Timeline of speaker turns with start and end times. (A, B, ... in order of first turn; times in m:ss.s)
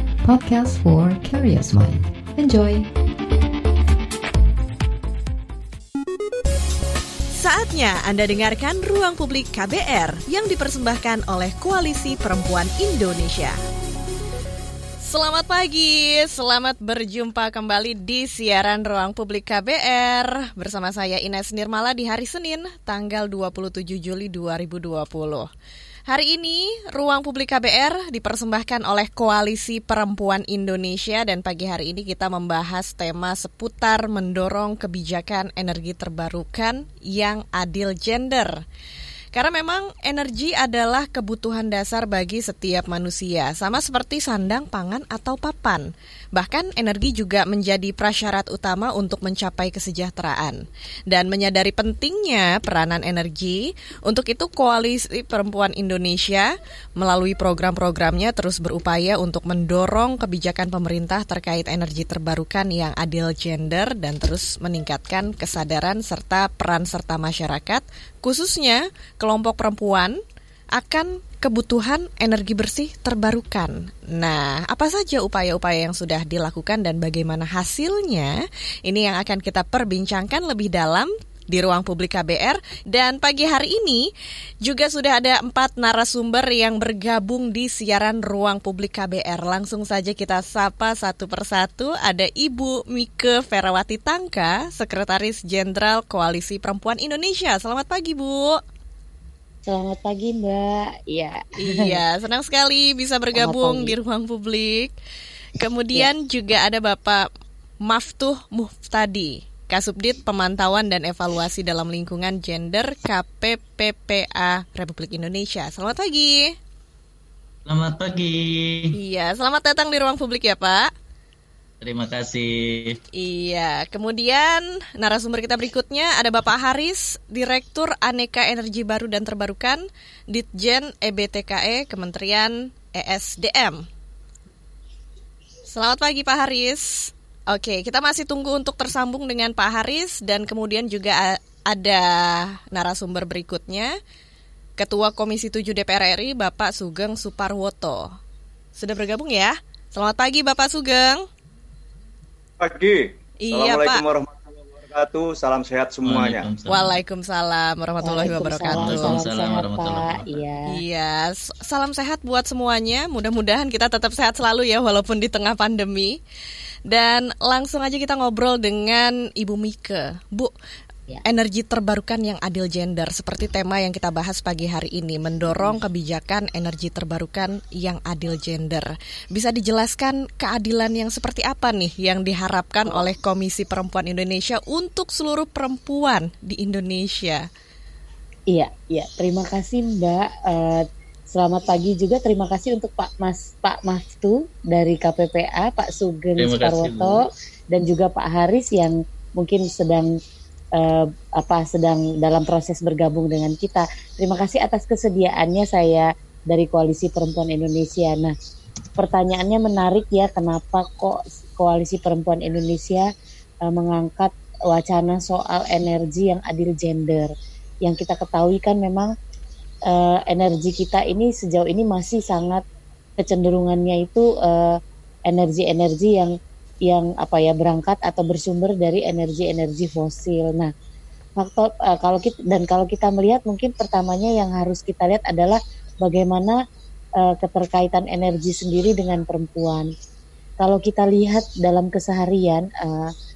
0:00.2-0:02.9 A
0:07.3-0:13.6 B
0:15.0-0:25.5 B
0:26.1-0:38.6 B
0:39.3-1:10.2 B
1:10.7-1:24.1 B
1:24.6-1:38.6 B
1:39.6-1:41.9 C
1:41.6-1:44.9 B
1:43.3-1:43.9 C
1:45.6-1:47.3 B
1:47.8-1:56.5 B
1:57.6-1:58.9 D
1:58.9-2:00.9 B
2:01.8-2:03.0 D
2:03.1-2:13.8 B
2:15.7-2:24.0 B
2:24.8-2:28.2 B
2:28.8-2:31.2 B
2:32.6-2:36.4 E
2:33.4-2:34.0 B
2:36.0-2:37.0 D
2:36.7-2:39.2 B
2:38.0-2:40.6 C
2:38.7-2:40.4 D
2:40.7-2:46.2 B
2:46.9-2:50.5 B
2:51.2-3:07.4 B
2:55.5-2:55.8 C
3:08.5-3:20.1 C
3:16.4-3:17.2 D
3:20.8-3:28.3 C
3:29.0-3:33.1 C
3:33.6-3:37.3 C
3:37.8-3:39.1 C
3:39.9-3:42.6 C
3:43.2-3:46.3 C
3:46.8-3:50.7 C
3:51.4-3:56.6 C
3:57.2-3:59.9 C
4:00.6-4:03.1 C